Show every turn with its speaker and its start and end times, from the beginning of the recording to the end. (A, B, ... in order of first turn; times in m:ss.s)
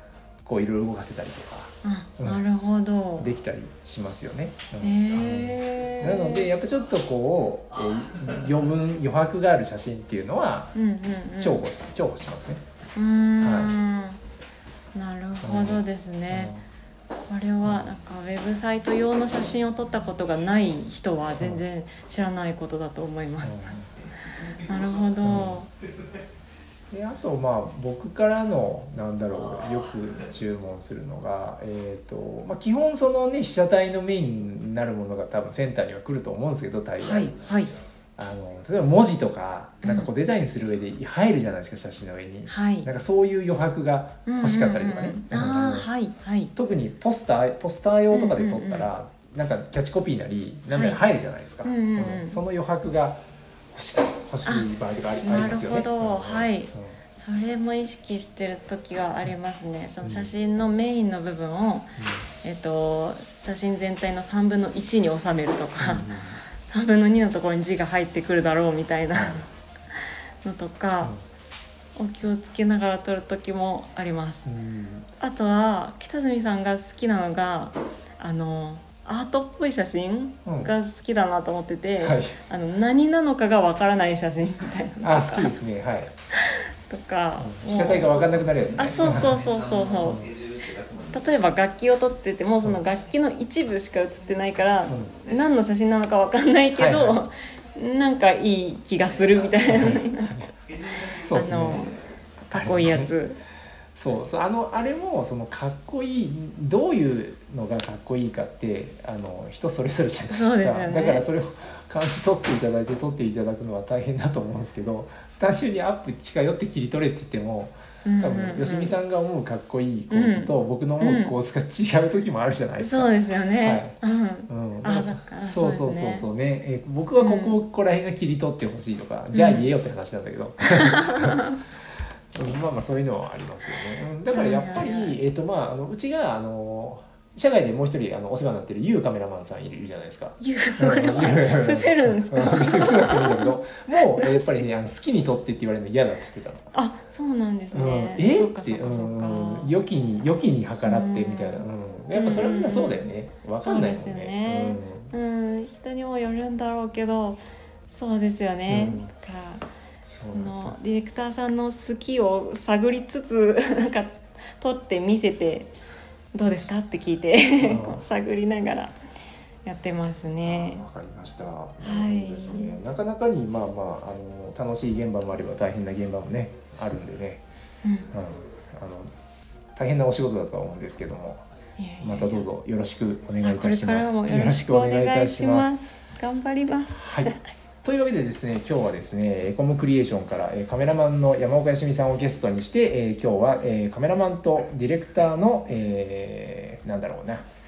0:00.4-0:02.4 A
0:01.8-0:03.3 B
0:03.2-0:10.8 A
0:04.8-0:06.5 B
0:10.7-0:11.6 B
0:11.4-0:12.6 A
0:13.0-0:14.2 B
0:13.4-0:13.7 A
0:14.9-0:16.5 B
0:15.4-0:16.6 A
0:17.3-0:23.8 B
0:21.4-0:21.6 A
0:23.4-0:23.9 A
0:24.5-0:25.7 B
0:25.2-0:25.6 A
0:26.9-0:37.4 A
0:37.0-0:37.8 B
0:38.2-0:45.9 A
0:39.8-0:40.1 B
0:42.5-0:42.9 B
0:44.3-0:46.5 B
0:46.6-0:53.2 A
0:48.1-0:48.9 B
0:50.7-0:51.0 B
0:51.6-0:52.4 B
0:53.7-0:57.0 A
0:55.2-1:09.5 B
1:00.0-1:00.3 A
1:02.0-1:02.3 A
1:05.8-1:06.4 A
1:09.1-1:09.4 A
1:10.4-1:11.1 B
1:12.0-1:14.5 B
1:14.4-1:15.1 A
1:15.2-1:25.5 B
1:20.4-1:20.7 A
1:22.0-1:22.4 A
1:25.0-1:26.1 A
1:26.3-1:30.3 B
1:27.4-1:29.4 A
1:28.7-1:31.2 C
1:30.0-1:30.3 A
1:31.1-1:40.5 B
1:34.9-1:35.2 A
1:36.7-1:37.2 A
1:39.2-1:39.7 C
1:39.6-1:40.5 A
1:40.8-1:41.1 C
1:41.1-1:41.9 A
1:41.3-1:42.0 B
1:42.5-1:43.4 B
1:42.5-1:43.2 A
1:44.0-2:03.1 A
1:50.3-1:51.3 B
1:58.0-1:59.0 B
2:00.1-2:01.4 B
2:02.8-2:06.3 B
2:03.6-2:04.0 A
2:04.5-2:11.5 A
2:07.2-2:07.6 B
2:09.3-2:09.7 B
2:12.3-2:26.7 A
2:14.3-2:15.2 B
2:20.4-2:24.6 B
2:26.7-2:29.7 B
2:27.7-2:35.1 A
2:30.8-2:33.1 B
2:33.6-2:39.7 B
2:38.7-2:39.1 A
2:40.1-2:40.8 A
2:40.3-2:45.7 B
2:46.3-2:49.0 B
2:47.6-2:48.0 A
2:49.6-2:50.9 B
2:50.4-2:57.4 A
2:51.8-2:52.8 B
2:57.8-2:58.1 B
2:58.1-2:59.1 A
2:59.8-3:01.4 A
3:01.8-3:02.5 B
3:02.0-3:05.8 A
3:03.4-3:07.4 B
3:06.9-3:07.3 A
3:07.8-3:17.4 A